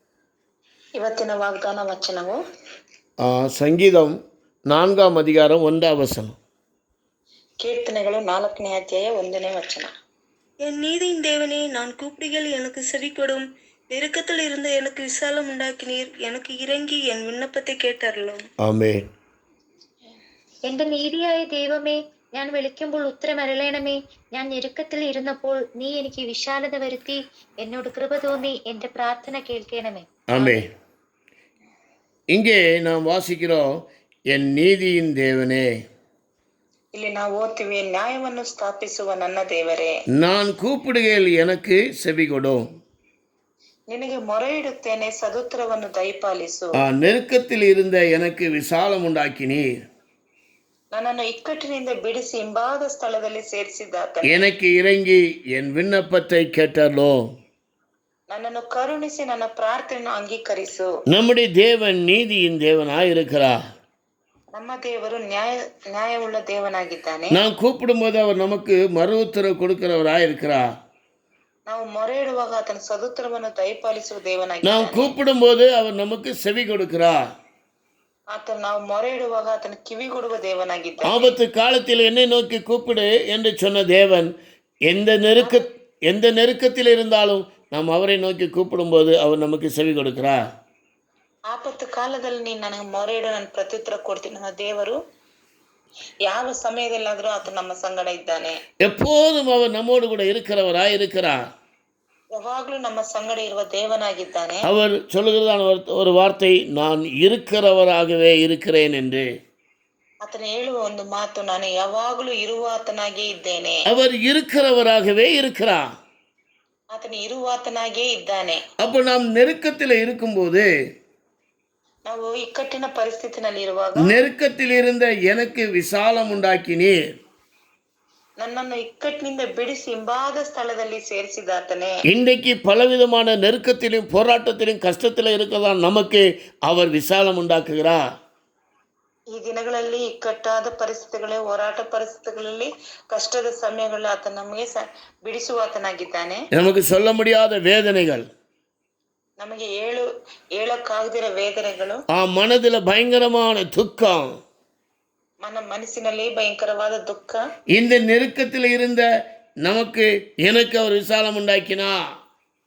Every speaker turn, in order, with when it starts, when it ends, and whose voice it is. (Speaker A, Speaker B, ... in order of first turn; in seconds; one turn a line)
Speaker A: 1.0-2.4
Speaker B: 3.2-4.2
Speaker B: 4.7-6.4
Speaker A: 7.6-9.9
Speaker C: 10.6-18.4
Speaker B: 18.6-19.1
Speaker D: 20.7-30.6
Speaker B: 30.3-30.7
Speaker B: 32.3-35.7
Speaker A: 37.0-39.9
Speaker B: 40.2-42.7
Speaker A: 43.9-46.8
Speaker B: 46.7-49.7
Speaker A: 50.9-54.5
Speaker B: 54.2-57.2
Speaker A: 58.3-60.9
Speaker B: 61.1-63.6
Speaker A: 64.5-67.4
Speaker B: 67.3-70.7
Speaker A: 71.7-75.2
Speaker B: 74.6-77.2
Speaker A: 78.3-81.4
Speaker B: 81.0-84.3
Speaker B: 84.9-90.4
Speaker A: 85.4-85.7
Speaker A: 91.5-95.0
Speaker A: 96.3-98.6
Speaker B: 98.8-101.4
Speaker A: 102.3-104.7
Speaker B: 104.6-109.3
Speaker A: 110.2-113.8
Speaker B: 113.9-115.9
Speaker A: 116.9-118.6
Speaker B: 118.8-120.7
Speaker A: 122.1-124.2
Speaker B: 124.0-127.0
Speaker A: 128.4-132.0
Speaker B: 132.1-138.0
Speaker A: 139.3-146.4
Speaker B: 146.5-148.3
Speaker A: 149.4-152.0
Speaker B: 152.1-154.3
Speaker A: 155.4-157.4
Speaker B: 157.7-159.1
Speaker B: 159.6-162.0